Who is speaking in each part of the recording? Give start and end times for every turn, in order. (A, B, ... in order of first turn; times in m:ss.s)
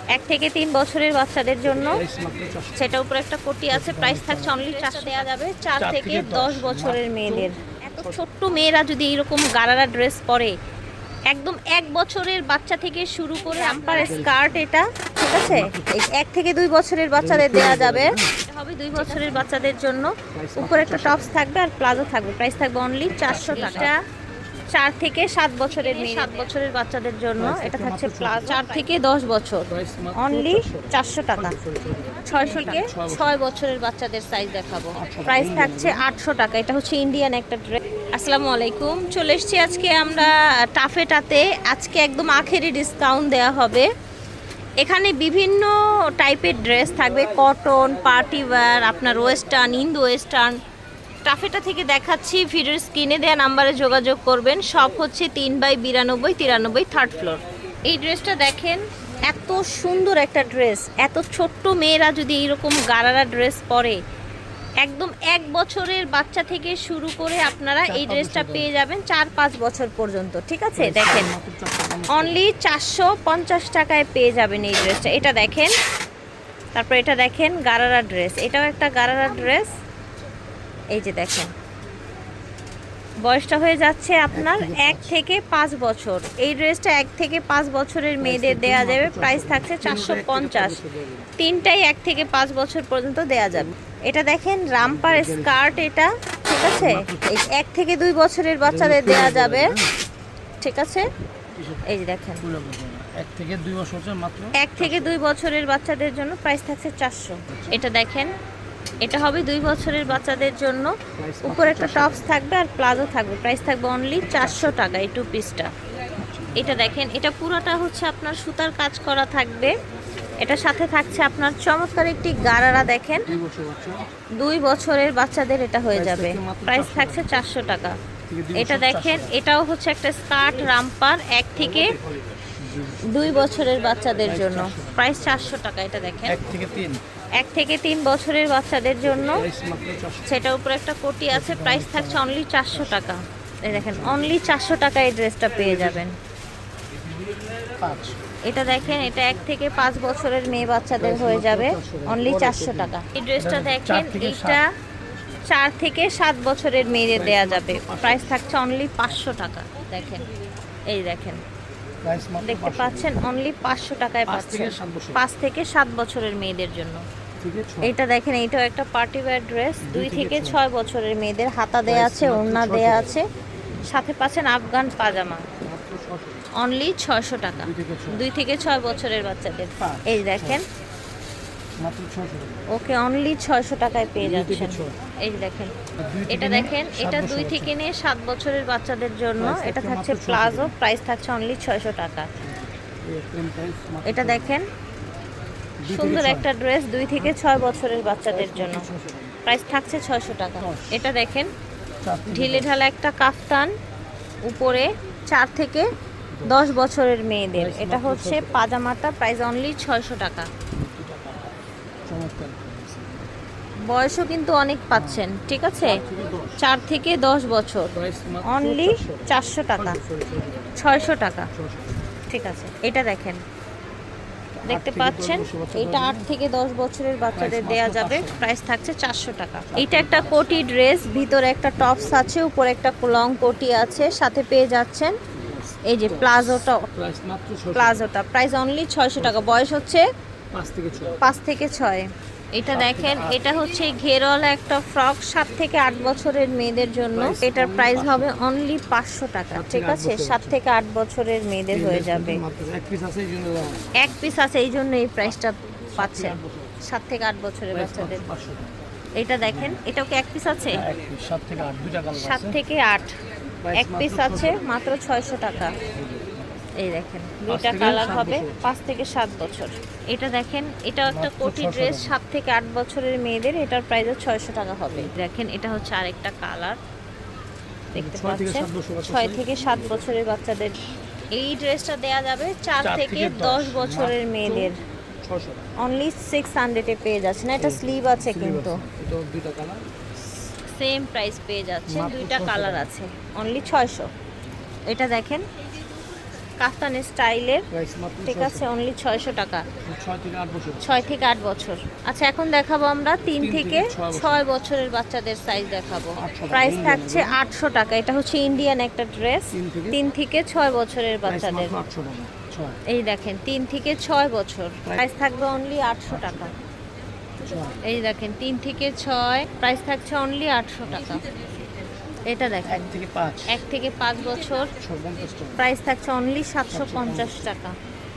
0:00.1-0:02.0 A
0:01.6-0:02.8 B
0:02.7-0:10.5 A
0:03.7-0:04.7 B
0:05.7-0:08.2 B
0:11.3-0:24.0 A
0:13.9-0:14.6 B
0:15.4-0:15.9 B
0:17.2-0:18.3 B
0:18.9-0:19.4 B
0:20.3-0:21.4 B
0:23.1-0:23.9 B
0:24.7-0:31.5 A
0:27.4-0:28.6 B
0:29.7-0:33.4 B
0:32.2-0:43.8 A
0:34.9-0:36.0 B
0:44.8-0:50.6 A
0:51.2-1:04.0 A
1:04.8-1:11.3 A
1:07.8-1:08.7 B
1:10.8-1:12.4 B
1:12.1-1:15.7 A
1:16.7-1:19.7 A
1:20.9-1:21.5 A
1:23.2-1:30.8 A
1:24.3-1:25.2 B
1:28.2-1:31.3 B
1:31.4-1:39.7 A
1:34.8-1:35.8 B
1:36.7-1:37.3 B
1:38.6-1:39.9 B
1:40.6-1:41.0 A
1:41.5-1:41.8 B
1:41.8-1:42.4 A
1:42.4-1:45.2 B
1:44.6-1:48.3 A
1:47.5-1:47.8 B
1:49.0-1:50.9 A
1:51.1-1:52.4 B
1:51.4-1:55.7 A
1:54.2-1:54.8 B
1:56.2-1:56.9 B
1:56.6-1:59.7 A
2:00.4-2:03.3 A
2:03.3-2:04.0 B
2:04.4-2:07.9 A
2:05.9-2:07.4 B
2:08.3-2:09.4 B
2:08.6-2:11.9 A
2:11.6-2:13.2 B
2:13.0-2:16.4 A
2:14.2-2:15.5 B
2:16.2-2:17.0 B
2:17.4-2:19.4 A
2:19.0-2:20.4 B
2:20.2-2:26.1 A
2:21.3-2:22.9 B
2:23.7-2:24.4 B
2:25.5-2:26.0 B
2:27.1-2:29.5 B
2:28.4-2:34.7 A
2:30.9-2:34.6 B
2:35.5-2:40.3 A
2:37.0-2:38.4 B
2:39.0-2:39.5 B
2:40.9-2:41.4 A
2:42.0-2:43.2 B
2:42.4-2:47.0 A
2:44.3-2:45.2 B
2:47.4-2:48.0 B
2:47.8-2:53.2 A
2:49.8-2:50.6 B
2:51.8-2:53.2 B
2:53.9-2:55.5 A
2:55.6-2:56.5 B
2:56.6-3:00.6 A
2:57.6-2:58.2 B
2:59.8-3:00.6 B
3:01.8-3:02.6 B
3:02.7-3:05.7 A
3:04.2-3:05.0 B
3:06.0-3:07.8 B
3:06.3-3:12.3 A
3:09.4-3:10.7 B
3:12.4-3:14.6 B
3:14.0-3:14.6 A
3:15.8-3:16.5 B
3:15.9-3:18.9 A
3:18.3-3:19.4 B
3:19.4-3:21.5 A
3:20.6-3:21.0 B
3:22.0-3:22.7 B
3:22.3-3:23.7 A
3:24.4-3:25.8 A
3:26.3-3:26.8 B
3:26.5-3:30.5 A
3:27.5-3:28.7 B
3:30.7-3:33.3 B
3:33.9-3:36.0 A
3:34.9-3:35.3 B
3:35.8-3:36.6 B
3:36.6-3:37.9 A
3:37.9-3:40.8 B
3:38.4-3:40.0 A
3:40.8-3:41.5 A
3:41.5-3:42.0 B
3:42.3-3:43.4 A
3:44.6-3:46.3 B
3:44.7-3:55.1 A
3:47.3-3:48.6 B
3:49.6-3:50.5 B
3:55.3-3:58.0 B
3:55.8-3:56.8 A
3:57.7-4:00.0 A
3:59.2-3:59.7 B
4:00.5-4:01.3 B
4:01.2-4:12.4 A
4:02.7-4:03.5 B
4:07.1-4:08.4 B
4:09.5-4:10.6 B
4:11.7-4:14.1 B
4:14.0-4:18.2 A
4:15.9-4:16.8 B
4:17.7-4:18.7 B
4:19.2-4:20.8 A
4:19.4-4:19.8 B
4:20.7-4:22.6 B
4:22.1-4:23.1 A
4:23.6-4:24.6 B
4:23.7-4:25.7 A
4:26.0-4:26.4 B
4:26.8-4:36.8 A
4:27.4-4:28.7 B
4:31.1-4:32.2 B
4:37.9-4:39.5 B
4:37.9-4:40.7 A
4:41.3-4:44.8 A
4:42.8-4:45.8 B
4:45.8-4:48.8 A
4:47.6-4:50.5 B
4:50.6-4:54.1 A
4:51.9-4:52.9 B
4:54.9-4:55.4 A
4:56.6-4:57.6 A
4:57.7-4:58.7 B
4:58.2-4:59.6 A
4:59.8-5:01.1 B
5:00.8-5:11.7 A
5:03.4-5:04.5 B
5:06.2-5:07.4 B
5:09.5-5:10.0 B
5:11.2-5:12.8 B
5:12.9-5:16.5 A
5:16.1-5:16.5 B
5:17.4-5:17.8 B
5:17.8-5:21.2 A
5:20.9-5:21.2 B
5:22.2-5:22.9 A
5:22.6-5:23.6 B
5:23.5-5:24.7 A
5:24.8-5:25.6 B
5:25.6-5:27.7 A
5:26.7-5:27.5 B